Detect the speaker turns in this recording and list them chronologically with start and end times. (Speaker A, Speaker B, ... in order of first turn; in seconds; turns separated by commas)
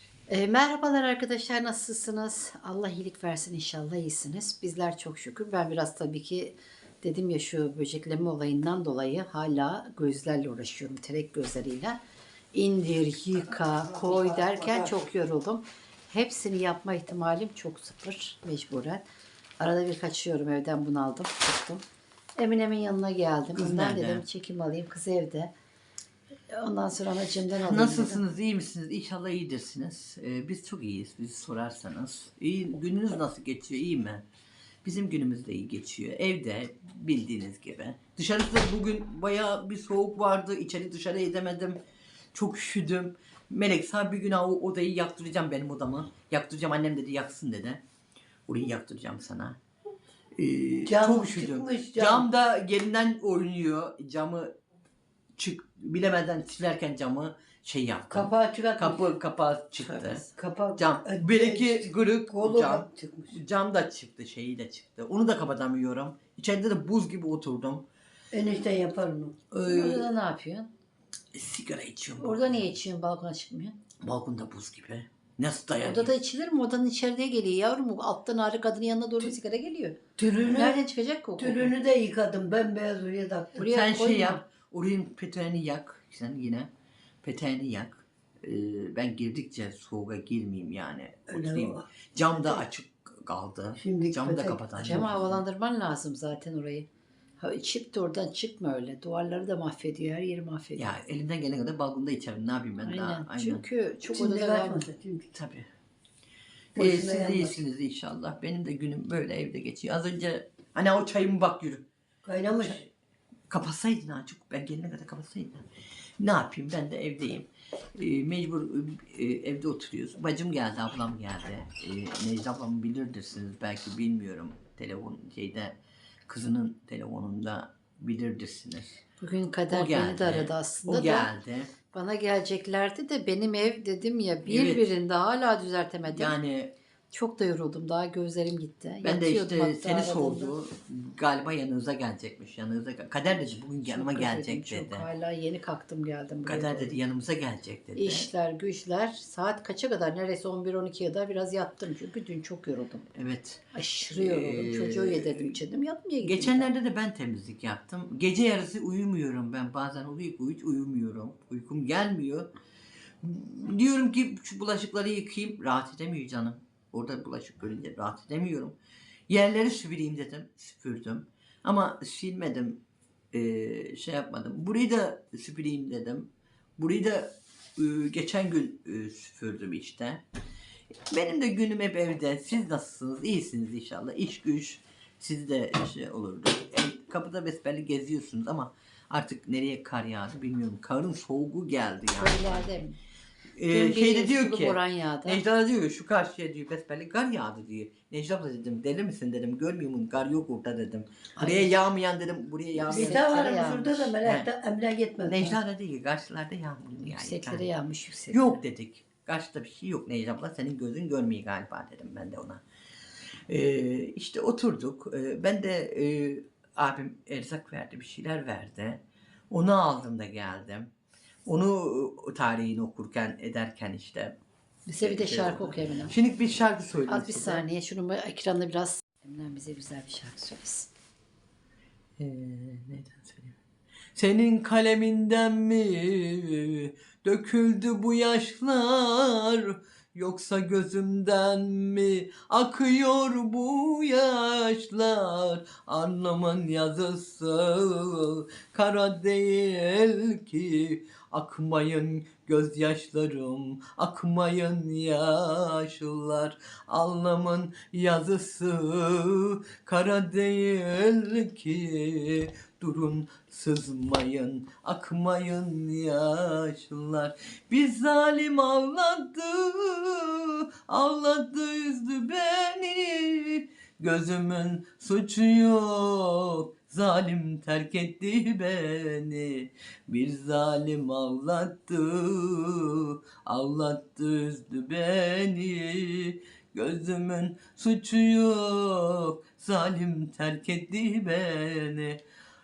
Speaker A: 0.3-12.0, Speaker A: 12.5-19.1, Speaker B: 13.5-15.1, Speaker A: 19.6-21.8, Speaker A: 22.4-25.5, Speaker C: 23.6-24.2, Speaker A: 26.5-28.2, Speaker C: 27.6-34.2, Speaker C: 34.8-41.8, Speaker C: 42.3-47.8, Speaker C: 48.5-49.6, Speaker C: 50.4-54.5, Speaker B: 50.9-52.3, Speaker C: 55.4-60.2, Speaker B: 58.1-59.1, Speaker A: 59.8-60.3, Speaker B: 60.4-63.4, Speaker C: 60.8-67.8, Speaker B: 68.3-69.3, Speaker C: 69.5-70.1, Speaker A: 69.6-70.7, Speaker C: 71.3-72.7, Speaker A: 72.2-73.8, Speaker C: 74.0-76.1, Speaker A: 75.8-80.0, Speaker B: 80.2-80.8, Speaker A: 80.5-81.7, Speaker B: 81.4-83.7, Speaker A: 83.6-84.4, Speaker C: 83.6-86.7, Speaker C: 87.2-95.4, Speaker B: 91.3-92.6, Speaker B: 93.8-94.6, Speaker A: 94.8-96.9, Speaker A: 97.4-100.9, Speaker C: 100.8-103.6, Speaker A: 102.8-104.8, Speaker B: 104.1-105.3, Speaker C: 105.3-105.7, Speaker B: 106.8-107.6, Speaker C: 106.8-111.8, Speaker B: 112.2-112.8, Speaker C: 112.6-112.9, Speaker C: 113.5-115.7, Speaker C: 116.2-125.8, Speaker C: 126.3-128.9, Speaker A: 129.2-131.3, Speaker C: 129.7-131.7, Speaker A: 131.9-136.3, Speaker C: 134.4-134.9, Speaker C: 136.1-136.7, Speaker A: 137.1-140.5, Speaker C: 139.0-145.1, Speaker A: 143.8-146.9, Speaker C: 146.4-148.3, Speaker A: 147.9-153.1, Speaker C: 153.1-155.6, Speaker A: 153.7-156.7, Speaker C: 156.2-162.5, Speaker C: 163.2-168.7, Speaker C: 169.3-172.8, Speaker C: 173.3-180.2, Speaker C: 181.1-192.7, Speaker A: 192.2-193.0, Speaker C: 193.6-203.3, Speaker A: 193.7-195.4, Speaker A: 201.3-201.7, Speaker A: 202.8-204.1, Speaker B: 202.9-205.6, Speaker C: 204.2-204.5, Speaker C: 205.2-207.7, Speaker A: 207.0-208.6, Speaker C: 208.3-212.6, Speaker C: 213.5-220.9, Speaker C: 221.4-224.3, Speaker A: 224.9-226.1, Speaker C: 225.0-227.7, Speaker A: 227.1-230.9, Speaker C: 232.2-233.6, Speaker C: 234.1-292.2